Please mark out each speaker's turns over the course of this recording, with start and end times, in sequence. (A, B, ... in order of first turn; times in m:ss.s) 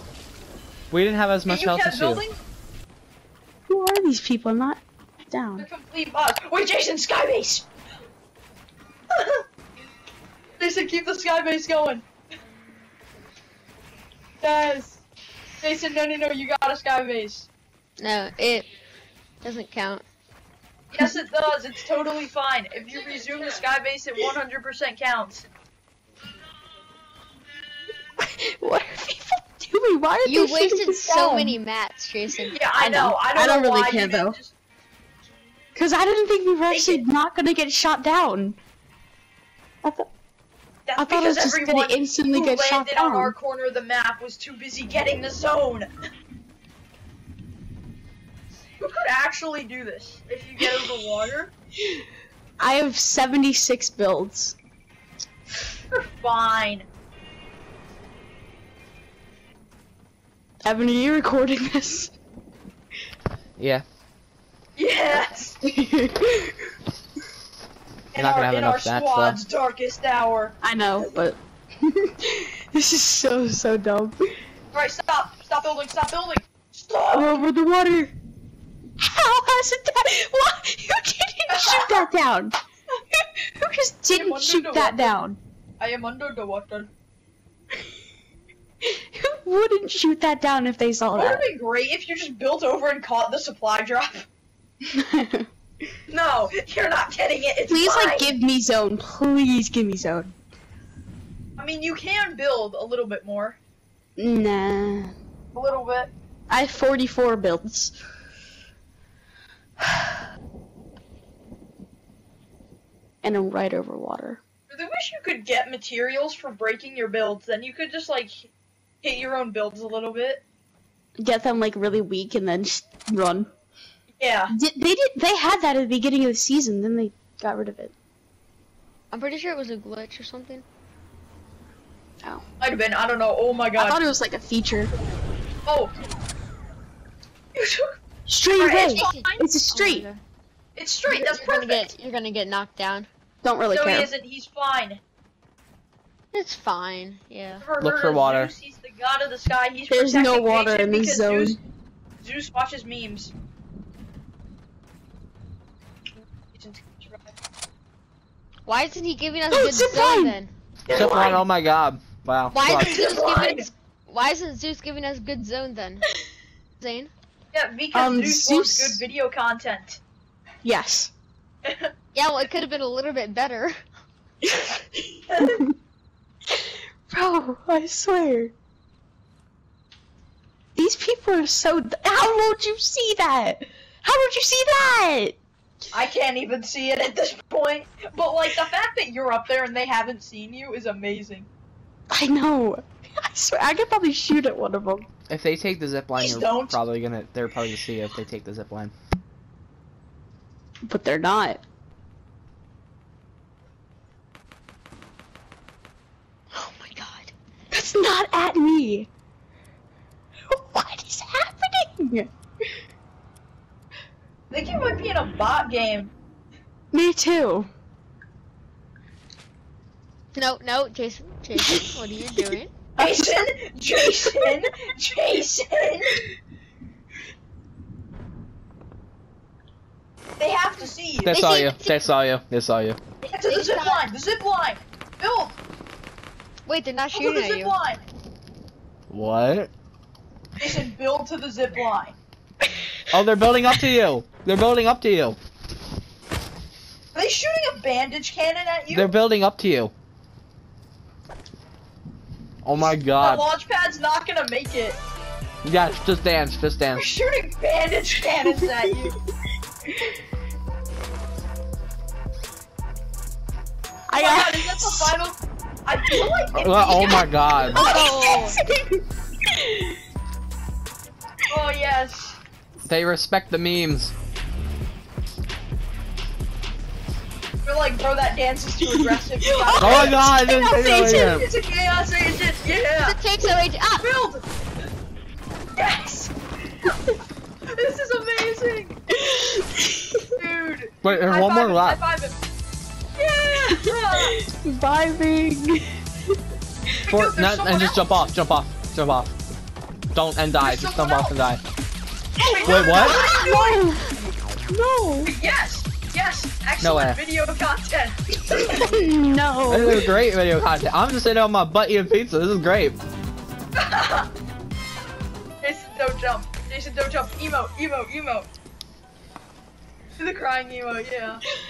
0:00.9-0:02.2 A
0:01.4-0:02.4 B
0:03.7-0:05.7 C
0:05.6-0:07.6 B
0:09.1-0:09.4 B
0:10.6-0:12.0 B
0:14.4-0:15.0 B
0:15.6-0:17.5 B
0:18.0-0:18.7 D
0:19.4-0:20.0 D
0:20.9-0:25.5 B
0:28.2-0:31.6 C
0:30.2-0:32.6 D
0:32.5-0:34.5 B
0:32.7-0:34.4 C
0:35.8-0:38.6 C
0:36.7-0:37.0 B
0:40.8-0:45.9 B
0:41.0-0:43.3 C
0:48.8-0:51.5 B
0:52.6-0:54.6 C
0:55.9-0:56.9 B
1:00.6-1:02.1 C
1:03.6-1:03.8 A
1:04.8-1:05.6 B
1:05.6-1:06.5 C
1:08.1-1:10.5 B
1:08.1-1:09.4 A
1:10.6-1:14.2 C
1:14.7-1:17.4 B
1:17.1-1:18.1 C
1:19.0-1:22.5 C
1:21.5-1:22.1 B
1:23.6-1:25.4 C
1:24.1-1:25.1 B
1:25.8-1:26.9 B
1:28.8-1:31.5 C
1:31.1-1:34.3 B
1:34.8-1:35.5 C
1:36.1-1:38.3 B
1:37.7-1:40.3 C
1:41.6-1:43.6 B
1:44.2-1:45.1 C
1:45.5-1:46.1 B
1:46.5-1:47.9 C
1:53.2-1:54.4 C
1:54.7-1:58.5 B
1:59.0-2:00.4 B
2:01.2-2:03.5 C
2:04.2-2:04.5 B
2:04.5-2:07.9 C
2:09.1-2:10.6 D
2:12.6-2:14.0 B
2:13.8-2:14.9 C
2:15.6-2:15.9 B
2:17.5-2:17.9 B
2:18.2-2:20.1 C
2:18.5-2:19.4 B
2:18.9-2:20.2 D
2:20.8-2:21.9 B
2:21.1-2:23.1 D
2:23.4-2:24.1 C
2:23.7-2:25.0 B
2:26.3-2:27.6 D
2:27.6-2:31.6 B
2:27.8-2:28.5 A
2:29.9-2:31.6 C
2:32.2-2:33.3 B
2:36.5-2:37.3 B
2:38.6-2:40.5 D
2:39.5-2:40.4 C
2:40.9-2:41.4 B
2:40.9-2:43.0 A
2:42.5-2:46.0 D
2:42.7-2:43.6 B
2:46.8-2:47.1 D
2:47.5-2:50.0 B
2:47.9-2:49.0 C
2:50.6-2:51.1 C
2:51.6-2:51.9 B
2:52.1-2:53.7 D
2:54.4-2:55.7 C
2:55.3-2:55.6 B
2:56.5-2:58.5 C
3:00.7-3:05.4 C
3:05.9-3:11.5 B
3:12.1-3:15.1 C
3:15.3-3:18.9 A
3:16.2-3:16.8 B
3:20.8-3:21.6 C
3:26.5-3:27.3 D
3:27.7-3:29.1 C
3:30.5-3:32.3 C
3:34.5-3:36.1 B
3:36.9-3:37.7 C
3:40.3-3:42.7 D
3:43.0-3:44.6 C
3:43.0-3:46.2 B
3:50.4-3:51.4 B
3:51.2-3:53.0 A
3:51.3-3:52.0 D
3:53.2-3:54.0 D
3:53.3-3:55.5 B
3:56.6-3:57.7 D
3:57.1-3:58.0 B
3:59.1-3:59.7 A
4:00.6-4:02.2 B
4:03.1-4:05.4 A
4:07.1-4:09.1 B
4:08.9-4:09.9 A
4:12.6-4:13.4 A
4:12.8-4:15.0 B
4:15.6-4:17.1 A
4:16.9-4:19.1 B
4:18.4-4:19.1 C
4:24.1-4:25.2 C
4:24.2-4:27.8 B
4:26.6-4:27.8 A
4:27.7-4:29.9 C
4:27.7-4:28.6 D
4:31.5-4:32.4 B
4:32.8-4:34.1 A
4:37.6-4:43.2 B
4:38.8-4:40.6 C
4:39.8-4:41.5 A
4:43.0-4:44.0 D
4:44.0-4:44.4 B
4:45.8-4:46.3 B
4:47.7-4:49.0 B
4:49.1-4:50.3 C
4:50.4-4:52.4 B
4:51.0-4:52.0 A
4:53.2-4:54.4 B
4:53.7-4:56.0 C
4:57.1-4:58.3 B
4:57.1-4:59.3 A
5:00.1-5:01.6 A
5:00.6-5:01.3 B
5:02.4-5:03.8 B
5:02.4-5:04.1 C
5:02.6-5:03.2 A
5:04.7-5:05.3 C
5:05.2-5:09.0 B
5:06.8-5:07.2 A
5:08.6-5:10.1 C
5:09.7-5:13.0 A
5:13.8-5:14.3 B
5:15.6-5:18.5 B
5:20.2-5:21.4 B